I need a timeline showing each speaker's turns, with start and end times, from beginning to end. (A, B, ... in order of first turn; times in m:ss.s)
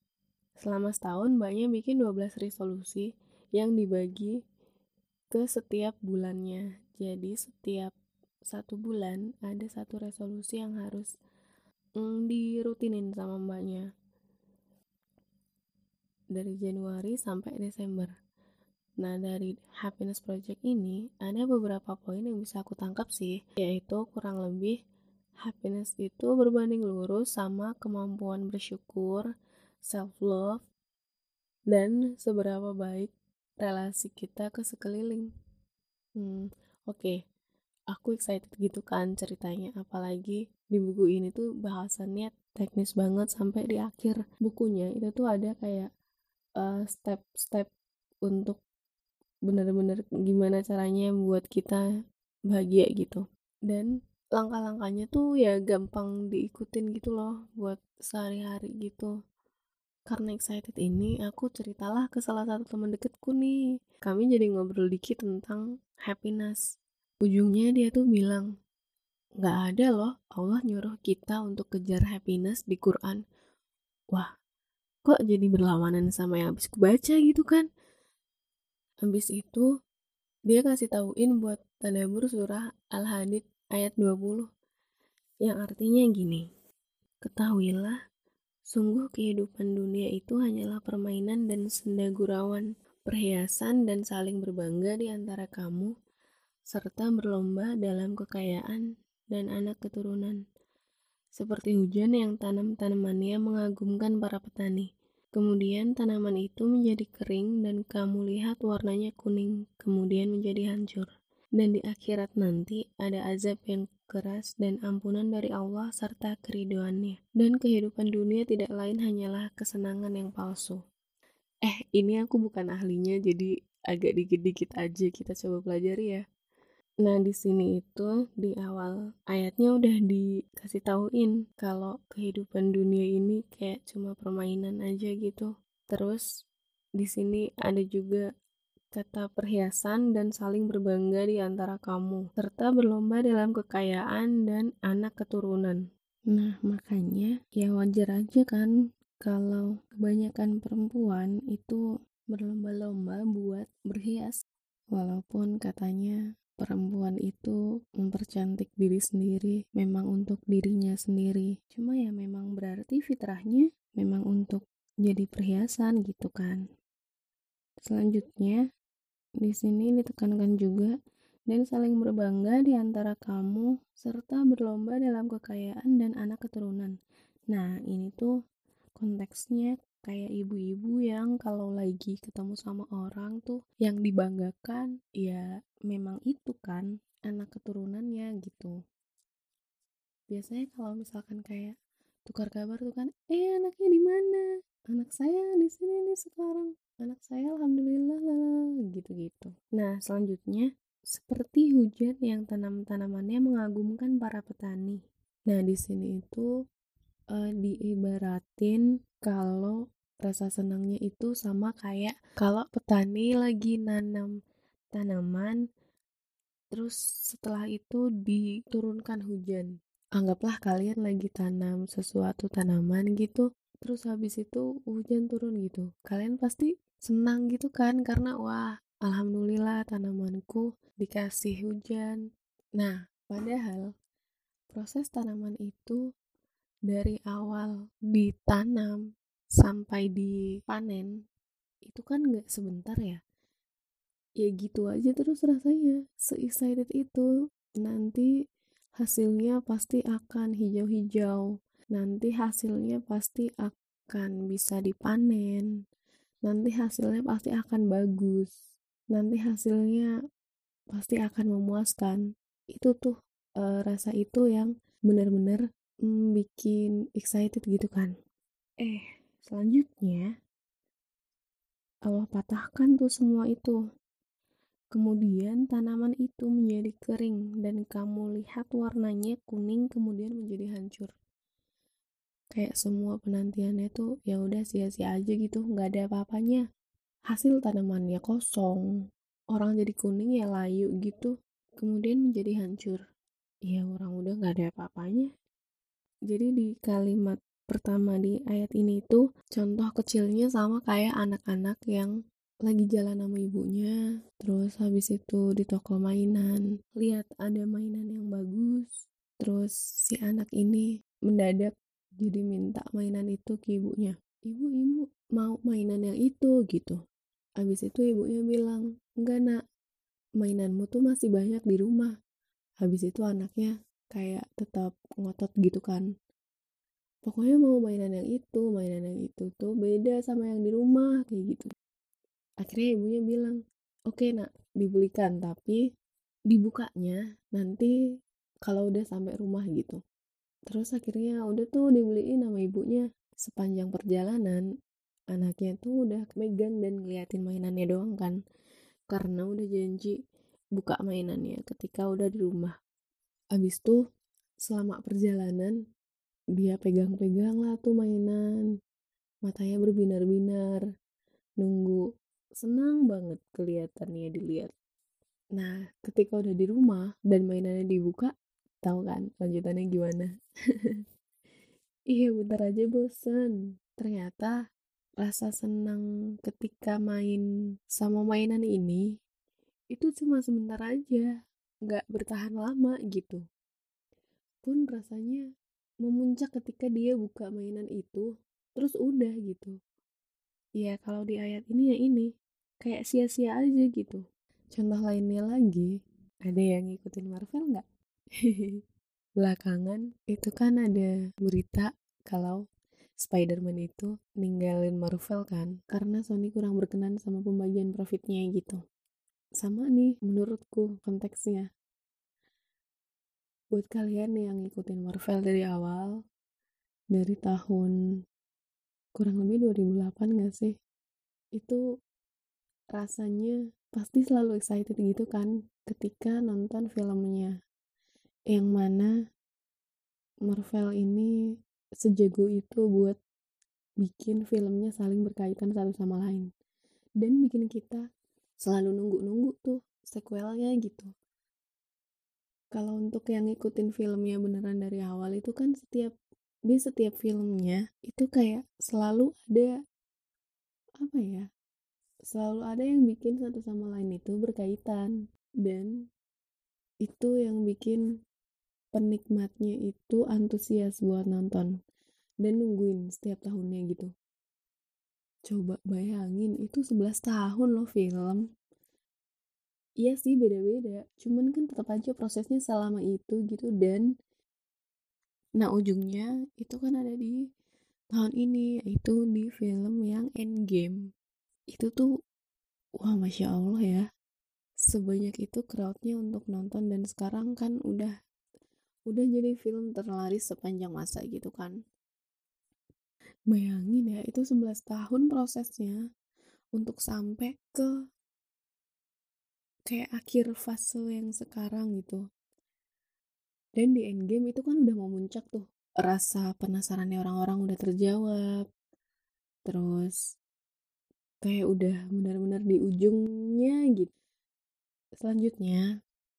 0:00.6-0:04.4 A
0:05.3-0:07.9 A
0:08.5-0:11.1 A
0:12.0-0:13.8 A
0:16.3-0:18.1 A
0:19.0-0:24.8 A
0:25.4-0:29.3 A
0:29.9-0:30.6 A
0:31.7-0:33.1 A
0:33.6-0:35.3 A
0:36.2-0:37.2 A
0:37.9-0:45.9 A
0:46.6-0:47.7 A
0:48.3-0:48.6 A
0:49.5-0:51.8 A
0:52.5-0:59.1 A
1:00.1-1:06.6 A
1:07.2-1:08.5 A
1:09.4-1:13.2 A
1:15.0-1:17.7 A
1:19.1-1:19.7 A
1:20.5-1:24.5 A
1:25.4-1:26.4 A
1:27.2-1:28.0 A
1:28.7-1:35.9 A
1:36.7-1:40.4 A
1:41.4-2:00.8 A
2:01.6-2:06.2 A
2:07.0-2:16.2 A
2:17.0-2:18.3 A
2:18.9-2:28.7 A
2:29.2-2:34.4 A
2:34.9-2:46.6 A
2:47.9-2:48.6 A
2:49.4-2:51.0 A
2:51.5-2:57.0 A
2:57.5-2:58.3 A
2:59.0-3:08.8 A
3:10.3-3:11.8 A
3:12.3-3:26.5 A
3:27.3-3:34.3 A
3:34.9-3:35.6 A
3:36.7-3:52.2 A
3:52.8-3:53.9 A
3:54.7-3:56.0 A
3:56.9-3:59.0 A
3:59.6-4:01.1 A
4:01.9-4:03.2 A
4:04.4-4:07.3 A
4:07.8-4:08.3 A
4:09.0-4:15.7 A
4:16.5-4:18.5 A
4:19.1-4:20.1 A
4:20.9-4:22.2 A
4:22.7-4:28.1 A
4:28.8-4:30.3 A
4:32.1-4:33.8 A
4:34.9-4:41.1 A
4:42.6-4:46.6 A
4:47.3-4:48.9 A
4:49.5-4:53.0 A
4:53.7-4:55.3 A
4:56.3-5:02.1 A
5:02.6-5:17.0 A
5:17.6-5:19.6 A
5:20.4-5:22.1 A
5:22.8-5:26.1 A
5:27.3-5:31.7 A
5:32.6-5:35.8 A
5:36.5-5:37.9 A
5:38.6-5:40.0 A
5:40.7-5:44.6 A
5:45.3-5:48.4 A
5:49.1-5:50.2 A
5:50.8-5:52.7 A
5:53.6-5:54.0 A
5:54.6-5:55.8 A
5:56.6-5:58.6 A
5:59.4-6:00.8 A
6:01.6-6:02.0 A
6:02.6-6:04.7 A
6:05.6-6:10.3 A
6:12.1-6:14.6 A
6:15.2-6:19.0 A
6:19.9-6:21.3 A
6:21.9-6:23.4 A
6:24.6-6:25.4 A
6:26.0-6:29.8 A
6:30.8-6:32.3 A
6:32.8-6:35.9 A
6:36.5-6:37.8 A
6:38.4-6:38.8 A
6:39.4-6:42.6 A
6:43.2-6:48.8 A
6:49.6-6:51.7 A
6:53.7-6:56.1 A
6:57.1-6:58.0 A
6:59.2-7:00.8 A
7:01.6-7:01.8 A
7:03.0-7:07.5 A
7:08.5-7:09.1 A
7:10.4-7:11.3 A
7:12.0-7:13.2 A
7:14.0-7:16.5 A
7:17.2-7:18.0 A
7:18.6-7:21.1 A
7:22.7-7:26.2 A
7:26.7-7:29.7 A
7:31.0-7:31.5 A
7:32.3-7:35.1 A
7:35.6-7:35.9 A
7:37.0-7:38.0 A
7:38.9-7:41.7 A
7:42.4-7:44.1 A
7:45.5-7:48.4 A
7:50.0-7:54.0 A
7:55.6-7:57.4 A
7:58.1-8:01.0 A
8:01.7-8:02.1 A
8:03.0-8:04.0 A
8:04.9-8:08.1 A
8:09.1-8:11.8 A
8:13.5-8:16.0 A
8:16.8-8:17.9 A
8:19.9-8:22.2 A
8:23.8-8:28.6 A
8:29.7-8:30.2 A
8:31.4-8:34.1 A
8:35.2-8:35.8 A